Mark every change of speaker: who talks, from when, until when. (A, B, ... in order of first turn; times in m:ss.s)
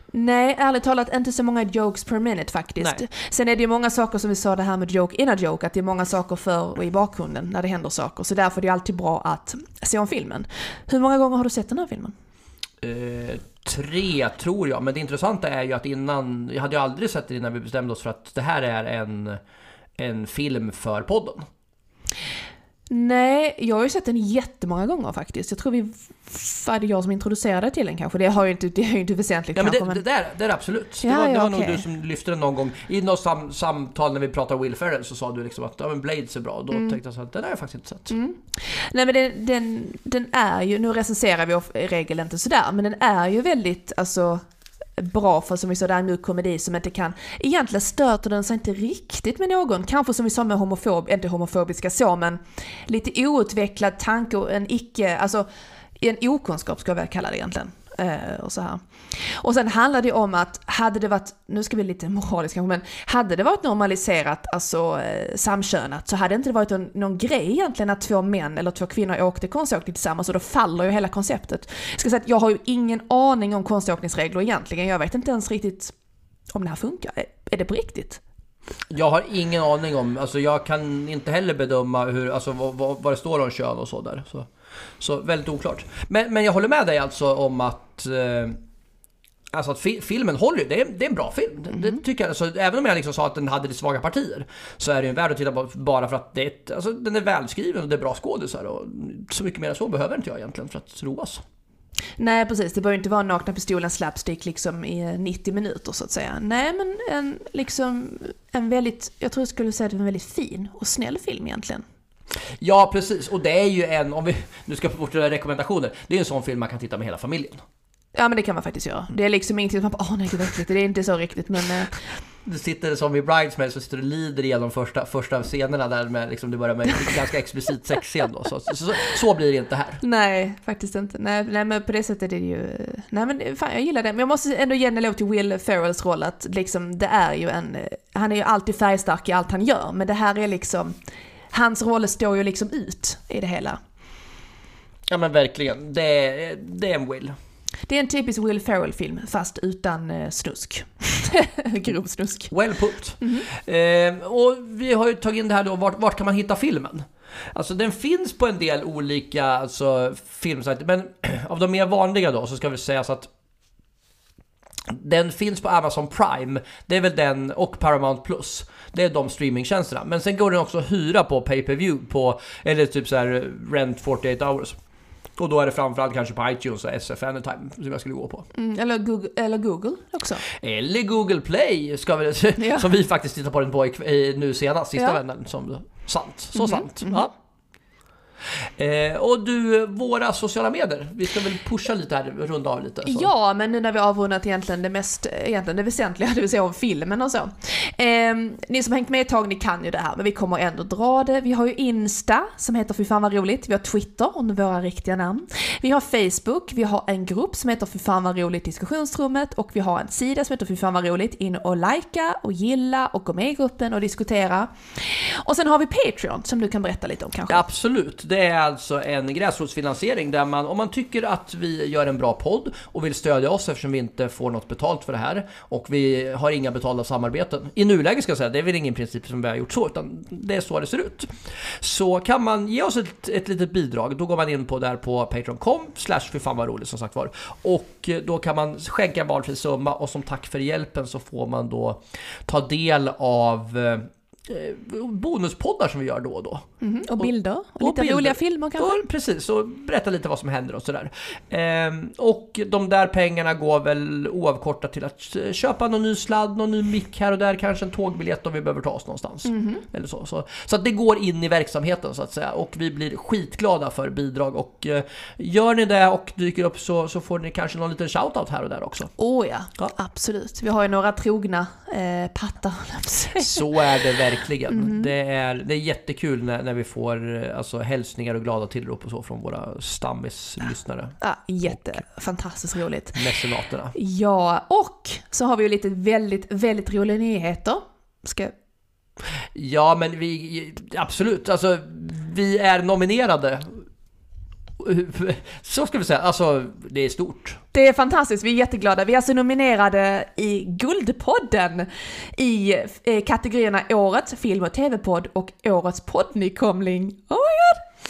0:00.1-0:12.1 A
0:12.8-0:19.4 B
0:20.0-0:21.5 B
0:22.9-0:30.0 A
0:29.6-0:38.1 B
0:31.0-0:31.8 A
0:38.1-0:44.4 A
0:45.0-0:55.5 A
0:56.0-1:15.9 A
1:16.5-1:18.2 A
1:18.9-1:24.5 B
1:25.0-1:28.6 B
1:29.5-1:41.4 B
1:42.2-1:51.8 A
1:52.6-1:57.6 B
1:58.2-2:02.0 A
2:02.4-2:10.0 B
2:10.0-2:21.0 A
2:21.5-2:23.8 A
2:25.1-2:27.4 B
2:27.9-2:32.5 A
2:32.5-2:43.3 B
2:33.2-2:33.5 A
2:44.9-2:54.8 B
2:55.4-2:58.5 B
2:58.5-3:00.4 A
3:00.5-3:07.3 B
3:02.6-3:02.9 A
3:06.5-3:07.3 A
3:08.6-3:13.3 B
3:13.1-3:37.6 A
3:37.5-4:06.7 B
4:06.8-4:09.0 A
4:07.2-4:29.1 B
4:19.5-4:19.8 A
4:29.2-4:33.6 A
4:33.4-4:41.2 B
4:34.7-4:35.1 A
4:41.2-4:43.2 A
4:43.1-4:44.0 B
4:43.9-4:48.6 A
4:49.6-4:53.8 B
4:54.8-4:57.6 B
4:57.7-5:07.8 A